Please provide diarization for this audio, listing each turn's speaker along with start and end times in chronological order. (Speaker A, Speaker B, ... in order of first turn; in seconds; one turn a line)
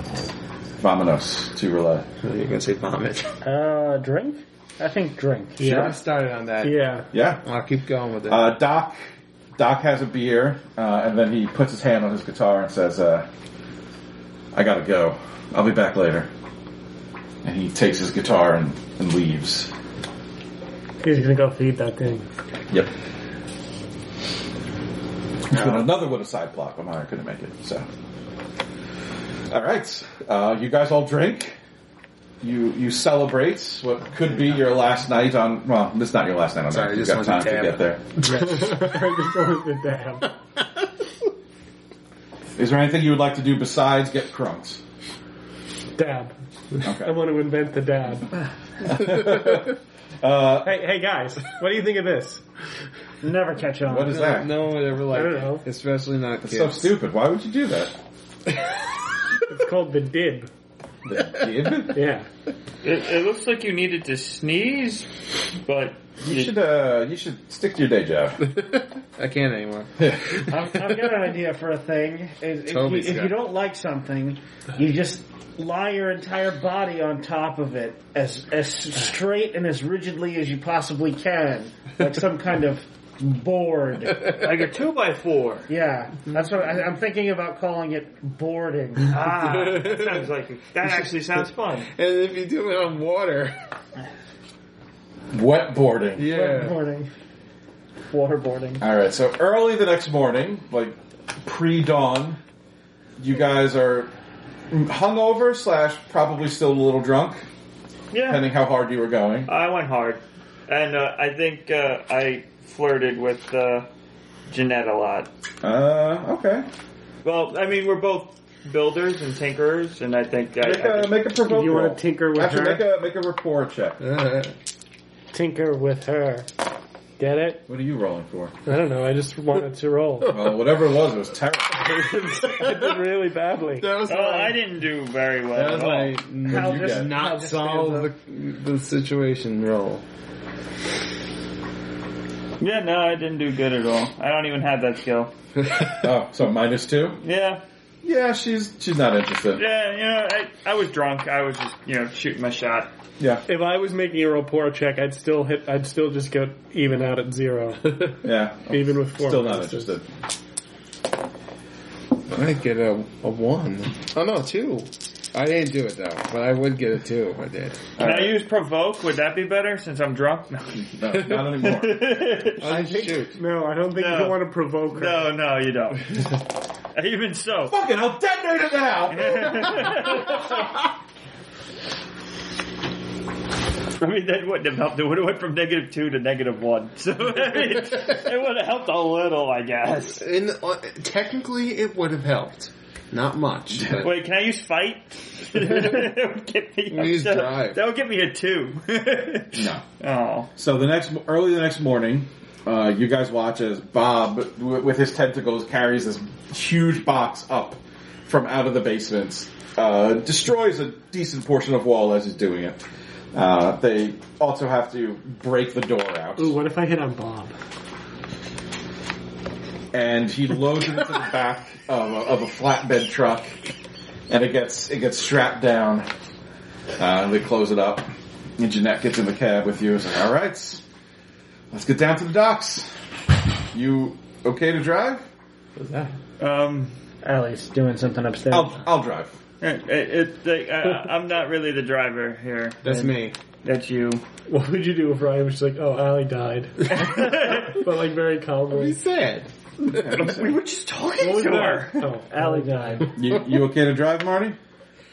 Speaker A: 0.8-2.1
Speaker B: 2.2-3.3
Speaker C: 3.4-5.9
Speaker B: 5.6-6.8
Speaker D: 5.6-5.9
Speaker D: 6.6-7.1
Speaker A: 7.1-7.4
Speaker B: 7.4-8.5
Speaker A: 8.3-13.3
Speaker A: 14.5-16.3
Speaker A: 17.4-19.7
Speaker D: 21.0-22.3
Speaker A: 25.5-27.9
Speaker A: 29.5-31.6
Speaker A: 32.4-38.0
Speaker B: 36.7-39.0
Speaker D: 38.2-40.3
Speaker A: 42.5-44.8
Speaker D: 46.0-48.3
Speaker A: 46.8-47.1
Speaker A: 48.8-50.8
Speaker D: 50.6-52.4
Speaker C: 53.2-54.3
Speaker A: 53.9-54.6
Speaker B: 54.1-56.9
Speaker D: 55.1-55.6
Speaker A: 56.4-57.9
Speaker D: 59.5-60.5
Speaker A: 61.0-62.0
Speaker D: 61.9-62.3
Speaker E: 62.8-65.1
Speaker E: 65.6-66.5
Speaker A: 66.2-68.5
Speaker B: 68.4-70.4
Speaker A: 70.0-70.4
Speaker C: 70.5-84.4
Speaker B: 72.7-73.4
Speaker E: 84.4-85.7
Speaker C: 85.7-89.2
Speaker E: 89.1-91.9
Speaker B: 89.3-90.2
Speaker B: 91.9-93.5
Speaker A: 95.3-96.3
Speaker B: 96.2-96.8
Speaker C: 96.3-97.1
Speaker C: 98.1-98.8
Speaker A: 98.8-102.4
Speaker A: 103.2-104.1
Speaker A: 104.7-107.5
Speaker E: 108.1-108.5
Speaker A: 108.3-109.5
Speaker E: 109.5-113.9
Speaker E: 114.5-115.3
Speaker A: 115.6-116.7
Speaker E: 117.2-121.2
Speaker A: 120.6-124.0
Speaker D: 121.4-122.9
Speaker B: 124.0-124.5
Speaker D: 125.3-126.5
Speaker D: 127.2-127.6
Speaker A: 127.7-128.5
Speaker D: 128.7-130.4
Speaker A: 130.3-132.0
Speaker D: 131.8-134.0
Speaker B: 132.5-132.9
Speaker B: 133.8-134.6
Speaker E: 134.1-136.2
Speaker B: 135.5-140.0
Speaker A: 136.4-137.3
Speaker C: 136.4-138.1
Speaker E: 142.6-145.3
Speaker A: 146.0-147.2
Speaker E: 147.2-147.6
Speaker A: 148.0-149.6
Speaker E: 149.6-152.9
Speaker A: 153.2-153.4
Speaker D: 153.5-159.9
Speaker A: 158.2-160.1
Speaker B: 162.3-167.9
Speaker A: 168.0-168.4
Speaker E: 168.0-172.9
Speaker A: 170.9-172.1
Speaker B: 172.6-173.4
Speaker D: 172.8-175.3
Speaker E: 173.9-176.4
Speaker E: 176.9-177.8
Speaker A: 177.7-179.9
Speaker E: 179.1-180.8
Speaker E: 183.9-190.2
Speaker B: 190.1-194.1
Speaker E: 194.0-200.5
Speaker B: 196.9-197.8
Speaker A: 199.6-199.8
Speaker A: 200.6-212.8
Speaker A: 213.3-216.6
Speaker D: 216.4-217.5
Speaker A: 219.9-223.6
Speaker A: 224.3-226.1
Speaker A: 227.0-230.8
Speaker A: 231.7-232.9
Speaker A: 233.7-235.3
Speaker B: 235.8-236.1
Speaker E: 236.4-236.9
Speaker C: 237.2-238.8
Speaker A: 238.5-239.4
Speaker E: 239.6-244.2
Speaker B: 242.8-243.4
Speaker D: 244.5-249.0
Speaker E: 246.9-247.7
Speaker B: 248.7-249.5
Speaker A: 249.9-250.5
Speaker E: 249.9-252.1
Speaker D: 251.2-253.1
Speaker C: 252.3-253.1
Speaker A: 253.2-254.6